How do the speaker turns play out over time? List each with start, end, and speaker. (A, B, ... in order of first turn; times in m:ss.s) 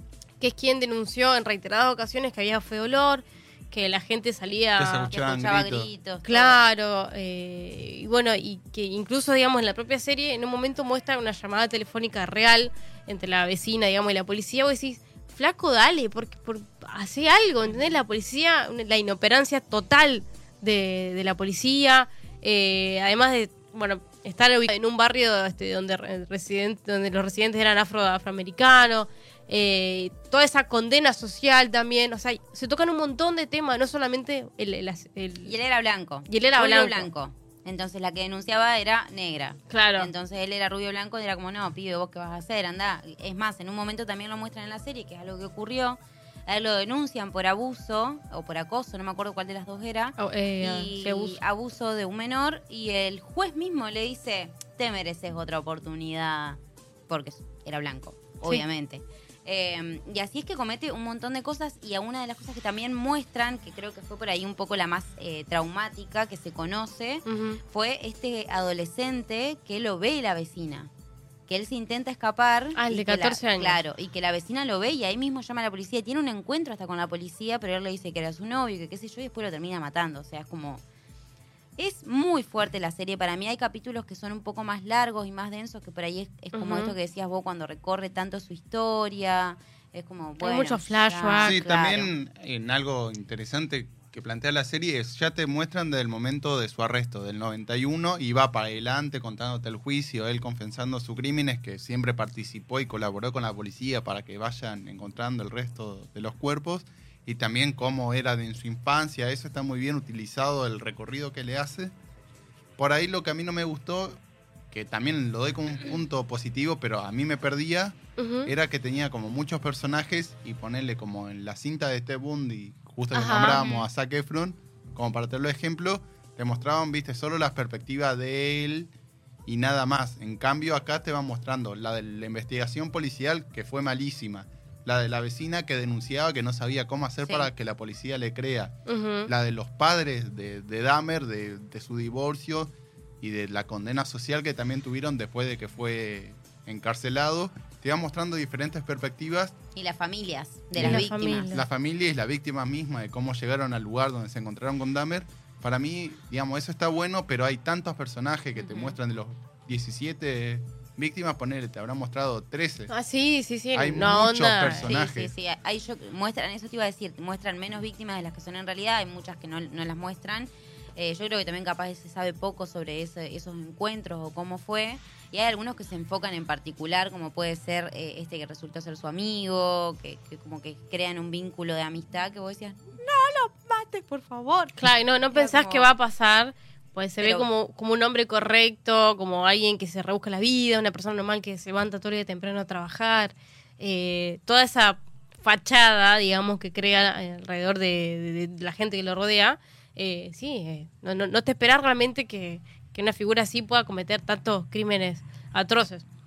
0:00.4-0:05.1 A
0:04.8-0:05.9 B
0:05.1-0:06.6 C
0:06.2-0:35.5 A
0:35.4-1:10.9 C
0:36.3-0:37.1 A
0:39.7-0:40.1 A
0:50.2-0:51.4 A
1:07.3-1:07.6 A
1:11.5-1:20.8 C
1:12.8-1:13.8 A
1:21.8-1:32.1 C
1:26.5-1:27.0 A
1:30.4-1:31.6 A
1:31.4-1:51.9 B
1:52.8-1:54.2 B
1:54.7-2:08.9 B
1:58.2-1:58.5 A
2:03.1-2:03.8 A
2:03.4-2:03.8 C
2:09.5-2:18.8 B
2:17.2-2:17.5 C
2:18.9-2:19.3 A
2:19.3-2:29.6 B
2:29.8-2:31.5 C
2:30.8-2:31.6 A
2:30.8-2:42.9 B
2:38.6-2:39.0 C
2:42.9-2:44.9 A
2:43.7-2:45.3 B
2:44.8-3:04.8 C
3:04.8-3:26.0 A
3:05.3-3:05.9 C
3:07.2-3:07.5 C